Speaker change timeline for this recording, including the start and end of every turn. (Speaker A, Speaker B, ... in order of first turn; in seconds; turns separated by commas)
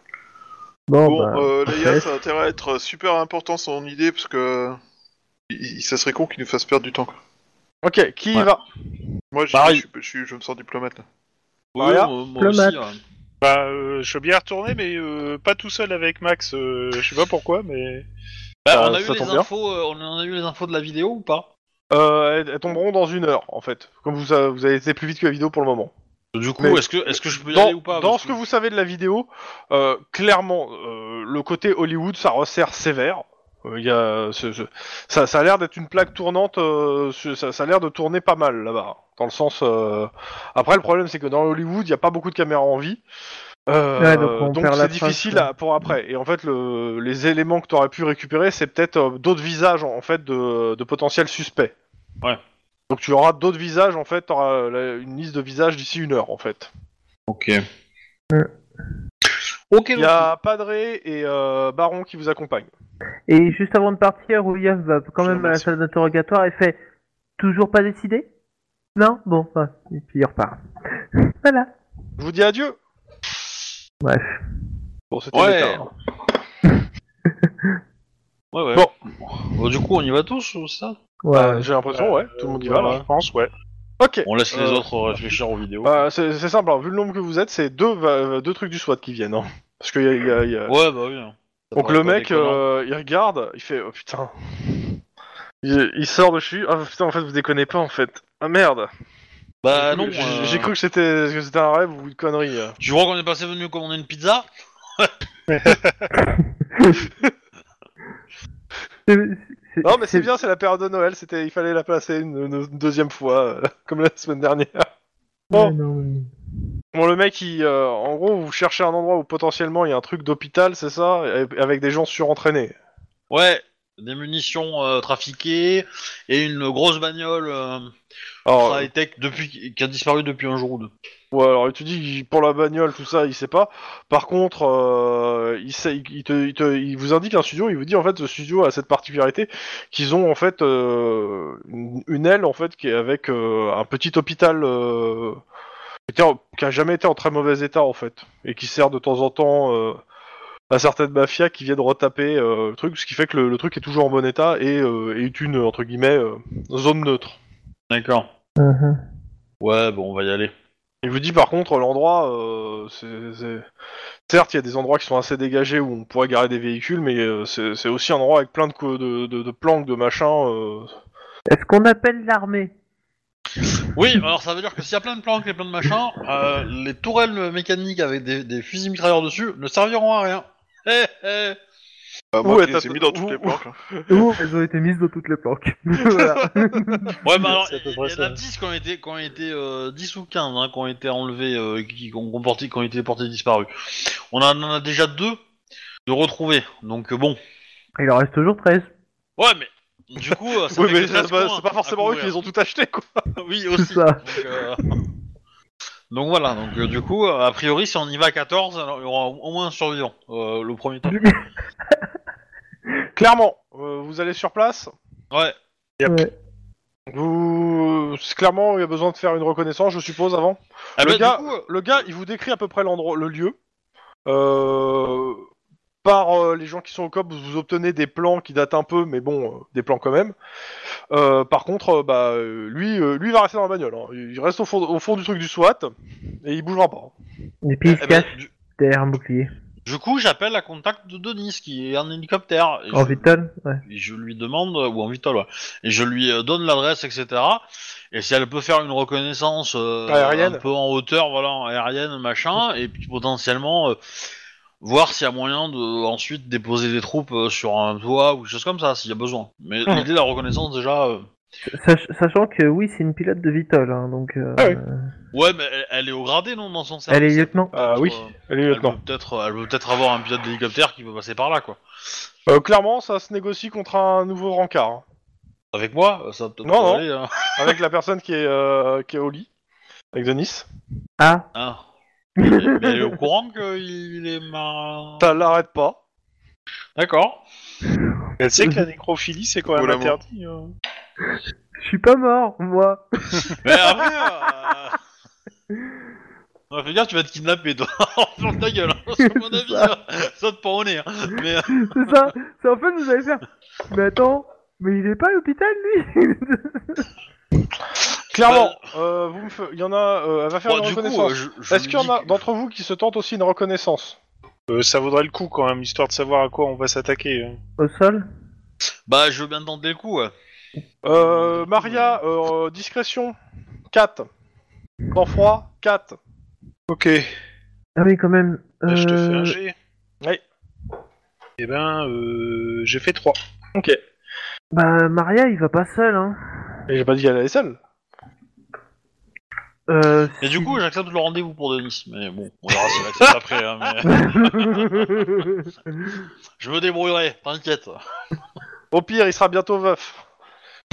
Speaker A: 0.9-2.1, Speaker B: 1.0-4.8, Speaker B: 5.5-7.2, Speaker C: 7.8-8.6, Speaker B: 9.3-11.0, Speaker D: 9.5-9.8, Speaker D: 11.7-13.0, Speaker C: 11.8-12.1, Speaker A: 12.4-12.9, Speaker E: 13.4-18.1, Speaker D: 18.6-21.5, Speaker C: 18.7-19.5, Speaker C: 21.9-25.9, Speaker D: 26.3-28.4, Speaker C: 26.6-43.0, Speaker C: 43.7-51.7, Speaker A: 44.0-45.5, Speaker C: 52.9-56.7, Speaker D: 57.3-57.6, Speaker D: 59.7-60.3, Speaker C: 60.0-62.7, Speaker A: 63.3-66.8, Speaker C: 65.2-65.7, Speaker A: 67.4-68.3, Speaker A: 68.9-70.6, Speaker A: 71.2-71.7, Speaker C: 72.2-72.8, Speaker A: 74.0-74.4, Speaker C: 75.1-75.9, Speaker D: 75.3-75.8, Speaker D: 78.5-81.0, Speaker A: 81.2-81.7, Speaker C: 81.3-83.0, Speaker E: 81.9-83.5, Speaker C: 84.0-84.9, Speaker D: 84.2-86.0, Speaker C: 85.8-90.7, Speaker D: 90.7-92.6, Speaker C: 91.7-95.0, Speaker C: 95.6-98.9, Speaker D: 99.6-100.7, Speaker C: 99.7-102.8, Speaker D: 102.8-104.5, Speaker E: 105.5-106.1, Speaker A: 106.3-107.0, Speaker A: 109.1-110.3, Speaker C: 109.8-114.9, Speaker A: 115.5-116.3, Speaker C: 116.9-122.8, Speaker D: 123.3-127.9, Speaker C: 128.4-128.9, Speaker D: 128.5-130.9, Speaker C: 131.3-145.4, Speaker C: 146.1-150.0, Speaker C: 150.7-157.4, Speaker D: 157.9-158.3, Speaker A: 158.6-159.0, Speaker D: 159.6-160.5, Speaker C: 161.0-163.7, Speaker C: 164.3-170.9, Speaker A: 171.5-172.7, Speaker D: 173.8-181.6, Speaker B: 182.3-183.7, Speaker C: 182.4-184.3, Speaker A: 184.1-187.2, Speaker C: 186.0-187.1, Speaker D: 187.2-195.4, Speaker E: 187.3-188.4, Speaker D: 196.1-197.4, Speaker A: 198.0-198.9, Speaker D: 199.4-202.4, Speaker C: 200.7-203.2, Speaker D: 203.4-205.0, Speaker A: 203.8-204.4, Speaker D: 206.1-211.2, Speaker A: 211.1-211.4, Speaker C: 213.1-214.9, Speaker A: 216.0-216.3, Speaker C: 217.1-223.6, Speaker D: 221.0-221.7, Speaker C: 224.2-225.4, Speaker C: 226.0-230.3, Speaker C: 231.1-235.9, Speaker C: 236.4-237.1, Speaker A: 237.6-239.5, Speaker D: 237.8-238.5, Speaker D: 239.8-243.3, Speaker A: 242.9-243.8, Speaker D: 243.8-254.0, Speaker C: 250.1-250.6, Speaker D: 254.8-261.3, Speaker A: 261.8-265.1, Speaker D: 265.3-271.8, Speaker A: 267.1-267.7, Speaker C: 267.7-269.0, Speaker C: 272.5-275.0, Speaker D: 275.7-277.7, Speaker C: 276.6-277.0, Speaker C: 277.6-279.5, Speaker C: 280.1-280.7, Speaker A: 281.2-281.5, Speaker D: 281.5-281.8, Speaker D: 282.4-285.3, Speaker A: 282.4-283.1, Speaker C: 285.2-286.0, Speaker D: 286.9-287.4, Speaker E: 288.4-290.7, Speaker B: 289.7-290.2, Speaker A: 291.8-294.2, Speaker D: 293.6-295.0, Speaker D: 296.7-302.1, Speaker A: 299.2-299.9, Speaker A: 301.8-307.1, Speaker C: 308.3-314.2, Speaker D: 308.4-308.9, Speaker D: 310.6-312.4, Speaker E: 314.7-317.6, Speaker A: 317.8-318.2, Speaker D: 319.1-320.3, Speaker C: 321.0-323.3, Speaker D: 321.1-322.2, Speaker C: 323.9-324.3, Speaker C: 325.1-326.2, Speaker E: 326.9-327.3, Speaker A: 327.9-329.6, Speaker E: 328.9-329.7, Speaker E: 331.6-333.4, Speaker C: 333.7-334.0, Speaker A: 334.7-336.8, Speaker C: 336.9-337.8, Speaker A: 339.9-340.8, Speaker D: 340.4-345.3, Speaker A: 344.1-346.0, Speaker D: 346.6-348.0, Speaker C: 348.9-350.2